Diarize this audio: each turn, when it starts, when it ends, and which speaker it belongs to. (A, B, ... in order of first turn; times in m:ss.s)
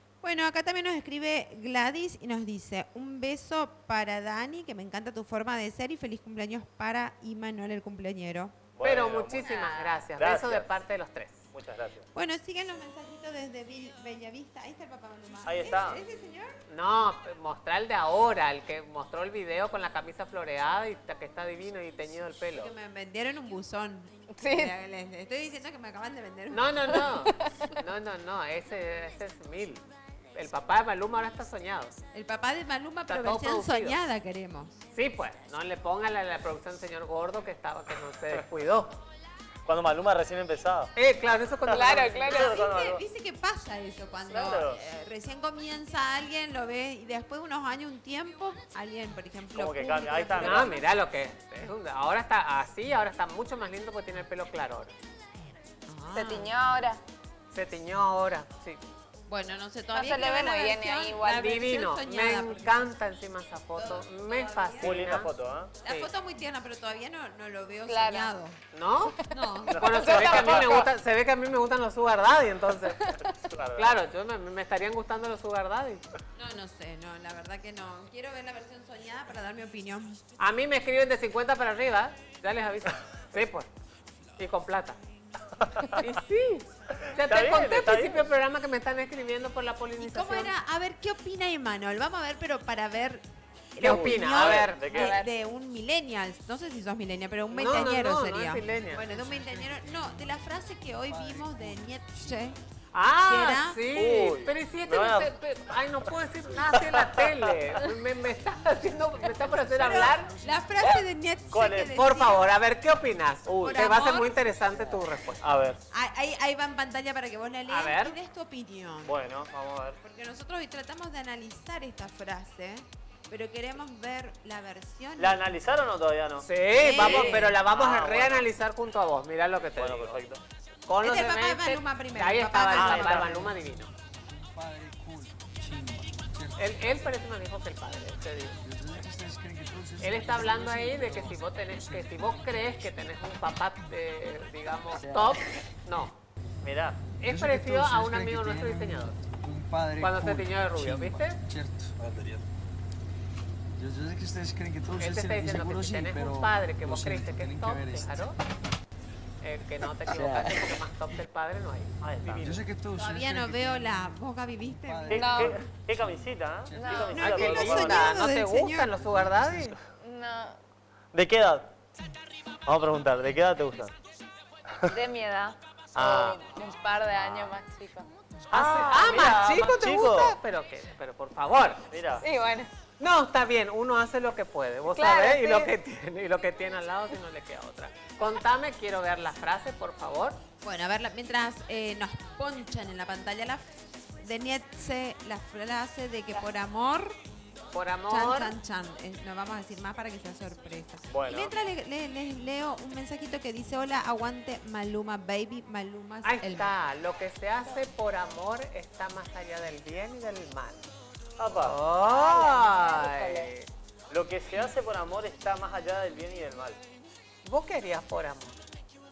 0:00.2-0:08.6 A
0:08.8-0:09.5 B
0:08.8-0:11.5 C
0:09.4-0:10.0 D
0:10.2-0:10.7 B
0:11.5-0:12.1 B
0:12.1-0:16.5 A
0:15.4-0:16.0 B
0:16.7-0:22.7 C
0:22.5-0:27.2 A
0:24.3-0:24.7 D
0:26.5-0:29.8 C
0:27.3-0:27.7 D
0:30.4-0:31.9 C
0:32.1-0:34.8 A
0:33.1-0:34.0 C
0:34.9-0:39.0 C
0:39.6-0:40.9 B
0:41.0-0:42.5 C
0:41.7-0:42.6 D
0:41.7-0:43.0 B
0:42.3-0:50.9 A
0:44.3-0:44.8 B
0:49.5-0:50.8 B
0:50.4-0:54.9 C
0:55.9-0:56.5 A
0:56.1-0:57.0 D
0:57.5-0:58.8 C
0:59.3-1:02.9 A
0:59.9-1:01.6 D
1:01.3-1:05.3 C
1:03.8-1:05.1 A
1:04.8-1:05.7 B
1:05.8-1:08.6 A
1:07.9-1:08.3 D
1:08.7-1:13.1 C
1:09.2-1:10.2 A
1:09.2-1:10.9 D
1:10.0-1:10.5 B
1:13.0-1:13.4 D
1:13.3-1:13.9 B
1:13.8-1:16.0 C
1:16.4-1:20.2 A
1:20.4-1:23.7 C
1:24.4-1:25.0 C
1:25.6-1:26.0 B
1:25.9-1:30.5 C
1:27.0-1:28.2 B
1:30.0-1:42.6 A
1:33.8-1:34.9 C
1:33.8-1:35.2 B
1:34.9-1:35.3 D
1:37.5-1:39.0 C
1:38.7-1:40.4 E
1:41.0-1:42.6 E
1:42.9-1:50.3 C
1:43.2-1:43.8 A
1:43.9-1:45.3 B
1:46.6-1:47.7 B
1:48.6-1:51.5 E
1:49.7-1:52.5 A
1:51.5-1:52.0 B
1:51.9-1:55.4 C
1:53.4-1:54.1 B
1:53.6-1:54.4 A
1:54.7-1:55.0 E
1:55.4-1:55.8 B
1:55.9-1:59.2 A
1:57.7-1:58.2 C
1:59.0-2:00.0 B
2:00.0-2:05.4 A
2:05.2-2:08.4 B
2:06.4-2:10.2 C
2:06.7-2:07.5 A
2:09.8-2:10.4 B
2:10.9-2:13.9 C
2:11.0-2:13.5 A
2:12.7-2:13.4 B
2:13.4-2:17.1 E
2:16.6-2:18.6 C
2:18.6-2:23.1 E
2:20.0-2:26.2 C
2:24.9-2:25.6 E
2:26.6-2:27.0 B
2:27.2-2:29.2 C
2:27.2-2:32.4 E
2:30.0-2:31.4 C
2:33.8-2:38.4 E
2:35.0-2:38.4 C
2:39.4-2:42.6 C
2:40.0-2:40.8 E
2:42.0-2:42.6 B
2:42.4-2:44.1 E
2:43.0-2:45.4 A
2:44.7-2:48.1 E
2:45.1-2:48.1 B
2:45.1-2:45.6 D
2:46.7-2:47.3 D
2:47.2-2:49.8 C
2:47.2-2:48.9 A
2:48.9-2:49.8 E
2:50.0-2:50.6 D
2:51.1-2:51.7 B
2:52.6-2:53.9 B
2:54.9-2:59.2 D
2:55.9-2:56.4 B
2:57.1-2:57.5 B
2:58.5-3:00.4 B
2:58.5-3:01.9 C
3:01.9-3:02.2 B
3:02.2-3:02.7 D
3:03.0-3:10.4 C
3:04.9-3:05.7 D
3:10.6-3:17.2 A
3:17.7-3:18.6 C
3:18.1-3:26.7 A
3:21.1-3:21.5 B
3:26.2-3:30.9 C
3:31.4-3:31.8 B
3:31.6-3:33.7 C
3:32.1-3:33.5 D
3:34.1-3:36.8 B
3:37.4-3:38.6 C